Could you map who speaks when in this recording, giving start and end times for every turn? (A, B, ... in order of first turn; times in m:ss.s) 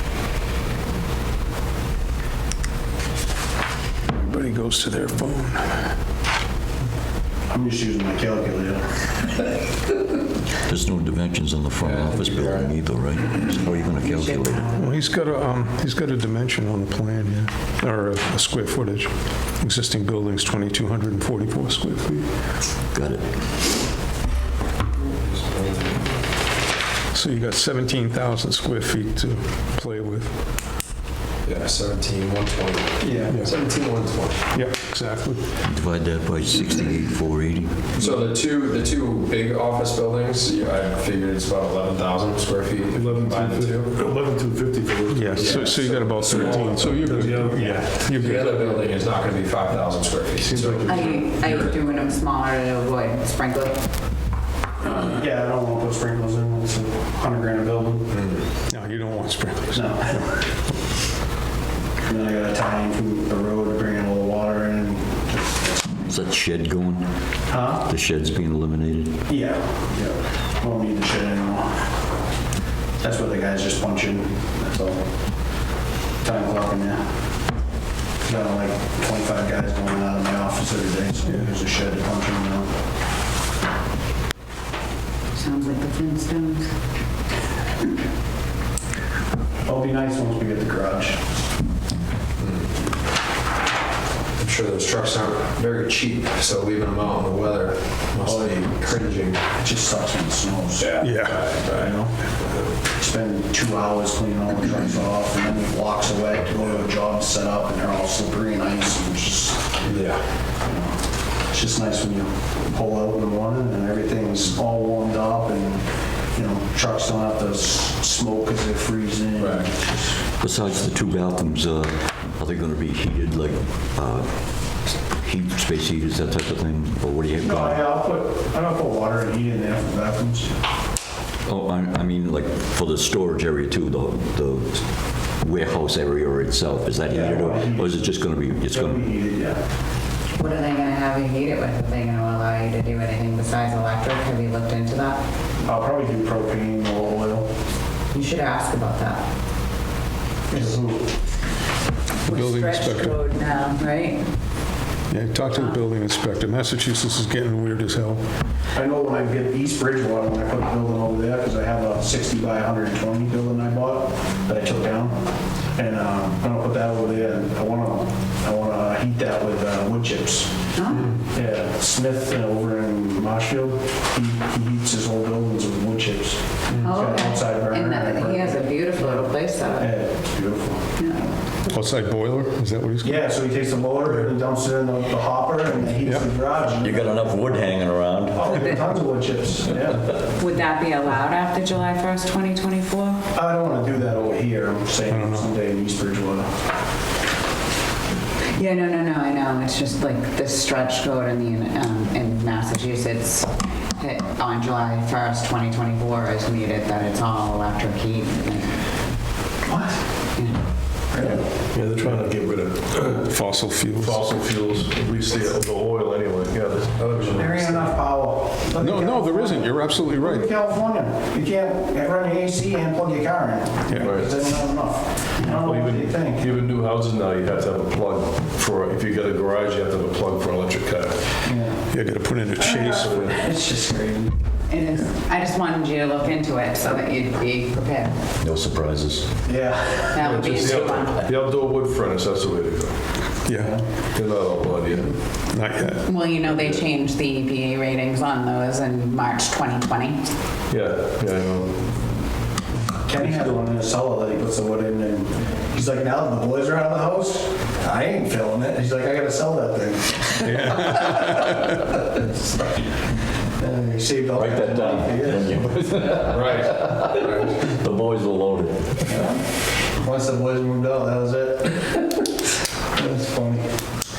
0:04.1-0:05.9 A
0:07.5-0:09.0 B
0:10.6-0:14.7 C
0:11.8-0:12.7 D
0:14.7-0:22.3 A
0:22.9-0:23.3 C
0:25.0-0:26.2 D
0:27.1-0:30.4 A
0:31.4-0:34.4 D
0:33.0-0:33.4 B
0:33.3-0:33.5 A
0:34.5-0:35.6 A
0:35.6-0:37.9 C
0:37.9-0:43.9 D
0:42.9-0:49.0 E
0:45.1-0:48.4 A
0:45.4-0:47.0 D
0:47.8-0:51.7 D
0:50.4-0:51.2 E
0:50.8-0:53.8 F
0:54.8-0:58.1 B
0:58.1-0:58.4 D
0:58.7-1:00.4 A
0:59.7-1:00.5 B
1:02.0-1:05.8 B
1:06.0-1:09.2 C
1:07.5-1:07.9 B
1:09.3-1:11.8 B
1:13.0-1:15.0 B
1:16.2-1:17.0 B
1:18.2-1:22.7 B
1:25.3-1:26.7 F
1:29.6-1:31.2 B
1:32.4-1:32.6 D
1:34.4-1:39.4 D
1:38.2-1:42.1 B
1:40.8-1:41.9 D
1:41.0-1:41.4 A
1:43.0-1:49.7 B
1:49.8-1:50.2 D
1:50.6-2:00.1 B
1:59.4-1:59.7 D
2:00.4-2:07.8 C
2:07.4-2:10.5 B
2:11.4-2:19.1 C
2:17.1-2:18.0 B
2:18.7-2:19.6 B
2:20.4-2:25.2 F
2:25.6-2:27.5 B
2:28.1-2:29.2 F
2:30.5-2:31.1 B
2:32.2-2:34.2 F
2:32.2-2:33.2 A
2:35.1-2:38.2 A
2:35.5-2:35.8 F
2:38.7-2:45.2 B
2:45.7-3:00.8 B
2:50.7-2:51.1 F
2:56.8-3:00.0 F
3:01.0-3:01.3 F
3:01.7-3:03.2 A
3:03.0-3:07.3 B
3:04.0-3:04.3 A
3:06.0-3:06.3 A
3:06.7-3:08.6 C
3:08.3-3:10.2 B
3:10.4-3:13.2 F
3:13.3-3:16.5 B
3:15.1-3:15.5 A
3:18.5-3:28.7 F
3:29.6-3:30.0 B
3:30.4-3:30.6 F
3:31.1-3:31.4 B
3:31.6-3:33.3 E
3:33.0-3:34.3 A
3:33.9-3:38.0 E
3:37.2-3:46.4 B
3:38.8-3:40.5 A
3:43.9-3:44.1 A
3:44.0-3:44.7 E
3:45.4-3:51.5 E
3:51.4-3:51.9 B
3:51.9-3:53.1 A
3:52.6-3:54.4 B
3:52.8-3:53.5 E
3:54.7-3:58.2 F
3:58.4-3:59.3 C
3:59.4-4:00.5 B
4:00.1-4:01.3 F
4:00.2-4:03.0 E
4:03.4-4:03.8 A
4:03.6-4:03.9 B
4:04.1-4:05.2 E
4:05.5-4:06.1 A
4:05.8-4:10.2 F
4:06.4-4:06.8 E
4:10.7-4:11.9 E
4:13.0-4:21.6 B
4:20.4-4:21.6 A
4:23.6-4:25.6 B
4:24.3-4:29.3 C
4:29.0-4:32.2 B
4:33.0-4:33.7 B